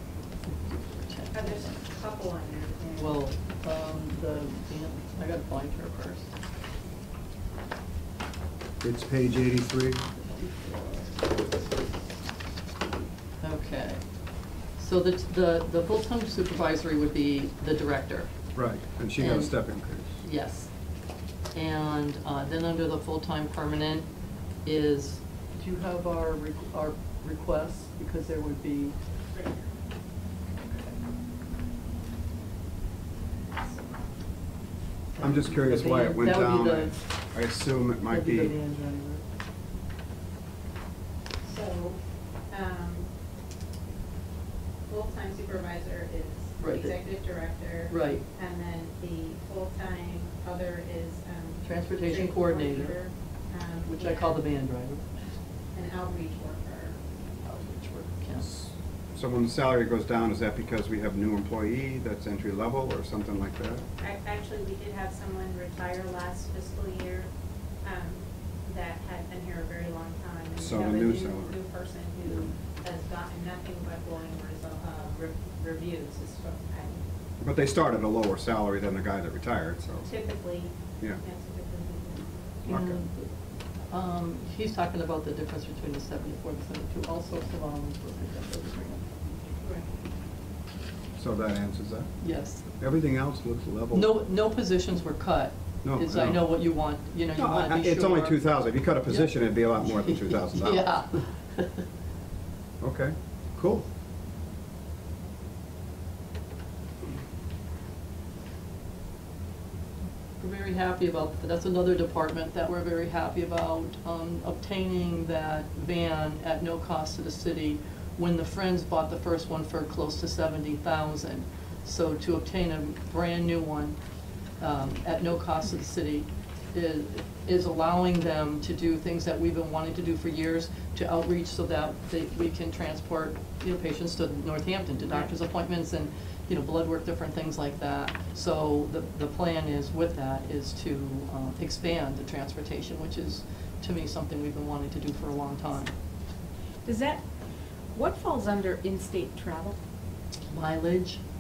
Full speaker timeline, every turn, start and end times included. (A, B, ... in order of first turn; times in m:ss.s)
0:00.5-0:01.8 A
0:01.3-0:03.2 B
0:03.0-0:06.3 A
0:08.8-0:10.0 C
0:10.2-0:11.5 A
0:13.4-0:14.0 A
0:14.7-0:18.3 A
0:18.5-0:20.2 C
0:19.2-0:19.5 A
0:20.2-0:20.7 A
0:21.5-0:24.1 A
0:24.6-0:29.0 A
0:33.6-0:34.0 B
0:35.2-0:37.0 A
0:35.2-0:38.6 C
0:38.0-0:39.2 A
0:41.4-0:43.1 B
0:44.9-0:52.9 B
0:46.6-0:46.9 A
0:47.9-0:48.2 A
0:51.6-0:53.0 A
0:52.3-0:53.1 D
0:53.5-0:54.4 B
0:53.9-0:55.0 A
0:55.7-0:57.0 B
0:57.4-0:58.5 A
0:58.4-1:03.8 C
1:04.0-1:07.3 B
1:07.8-1:17.0 B
1:10.6-1:11.6 C
1:17.4-1:20.1 C
1:20.0-1:22.7 B
1:22.7-1:23.0 C
1:22.7-1:23.2 A
1:23.9-1:29.0 A
1:31.2-1:32.1 C
1:32.2-1:32.7 A
1:32.7-1:34.2 C
1:33.9-1:38.4 A
1:35.8-1:36.6 C
1:37.4-1:41.0 C
1:39.1-1:41.9 A
1:42.8-1:43.8 C
1:50.4-2:04.0 A
2:04.6-2:25.9 A
2:26.8-2:27.2 D
2:27.9-2:29.8 D
2:30.5-2:31.2 A